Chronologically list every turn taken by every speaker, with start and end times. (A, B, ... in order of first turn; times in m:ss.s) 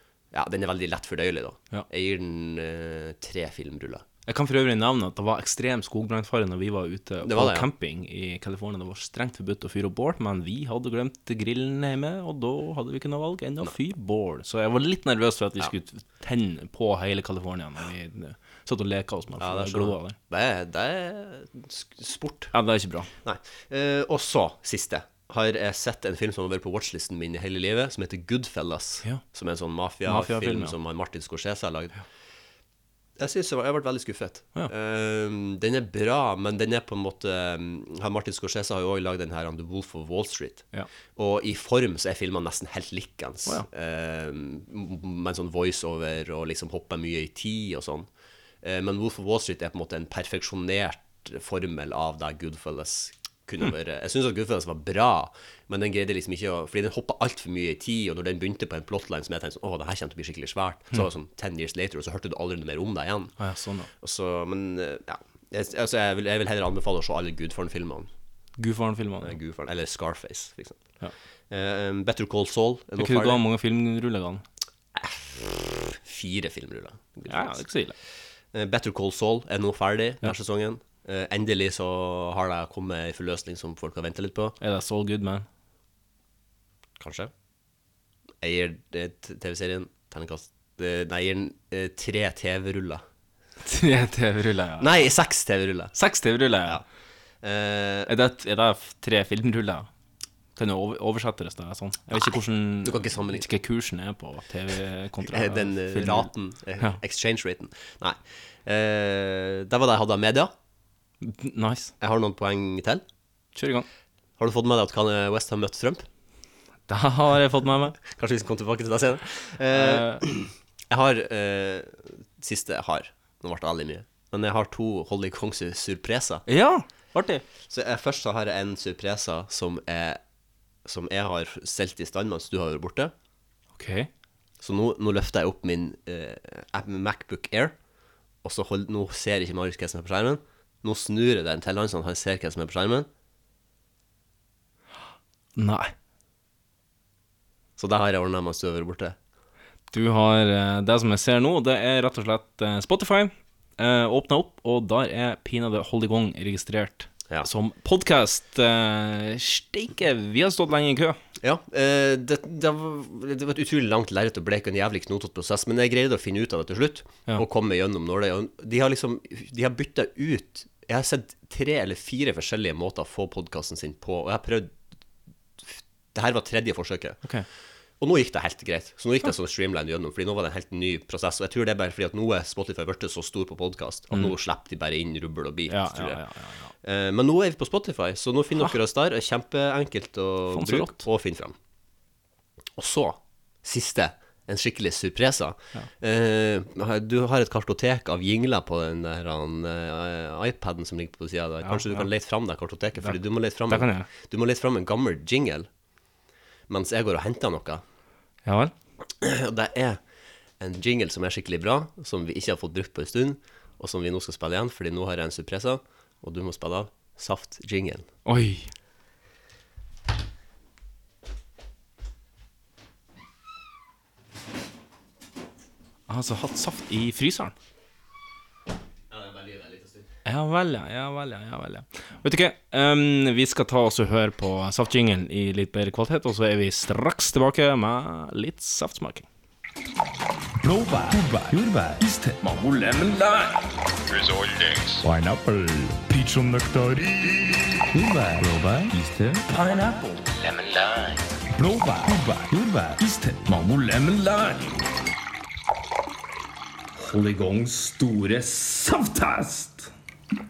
0:00.3-0:04.0 A
0:04.3-0:20.2 B
0:07.2-0:07.7 A
0:19.4-0:22.5 A
0:22.5-0:23.1 B
0:23.2-0:32.0 A
0:30.1-0:30.8 B
0:33.2-0:48.1 A
0:48.6-1:03.3 A
1:03.4-1:03.9 B
1:04.0-1:08.1 A
1:08.6-1:09.4 B
1:09.2-1:10.8 A
1:11.5-1:13.4 A
1:13.0-1:14.4 B
1:15.0-1:17.6 A
1:17.3-1:18.0 B
1:18.5-1:24.6 A
1:24.6-1:25.5 B
1:27.0-1:27.3 A
1:28.4-1:33.0 A
1:33.6-1:34.9 B
1:34.8-1:35.9 A
1:35.9-1:36.8 B
1:37.4-1:38.1 A
1:38.1-1:39.9 B
1:40.6-1:47.0 B
1:42.1-1:43.4 A
1:45.2-1:50.5 A
1:51.2-1:51.9 B
1:52.0-1:53.0 A
1:53.6-1:53.9 B
1:54.4-1:56.1 A
1:56.9-1:58.0 B
1:58.0-2:06.4 A
1:59.7-2:00.2 B
2:06.5-2:07.4 B
2:07.7-2:10.2 A
2:10.8-2:13.1 A
2:13.8-2:14.1 B
2:14.6-2:17.8 A
2:18.4-2:23.1 A
2:25.6-2:25.9 B
2:27.8-2:29.2 A
2:29.9-2:41.2 B
2:41.4-2:54.8 A
2:55.6-2:57.2 A
2:58.0-3:06.2 A
3:05.7-3:06.7 B
3:06.8-3:11.6 A
3:10.5-3:11.0 B
3:12.8-3:25.7 A
3:21.6-3:22.1 B
3:23.0-3:24.1 B
3:26.7-3:27.8 A
3:28.4-3:28.7 B
3:29.2-3:30.0 A
3:30.6-3:38.1 A
3:38.3-3:38.7 B
3:46.1-3:47.5 B
3:49.1-3:50.1 A
3:50.2-3:59.3 B
4:00.6-4:03.6 C
4:04.9-4:14.8 C
4:17.0-4:19.9 C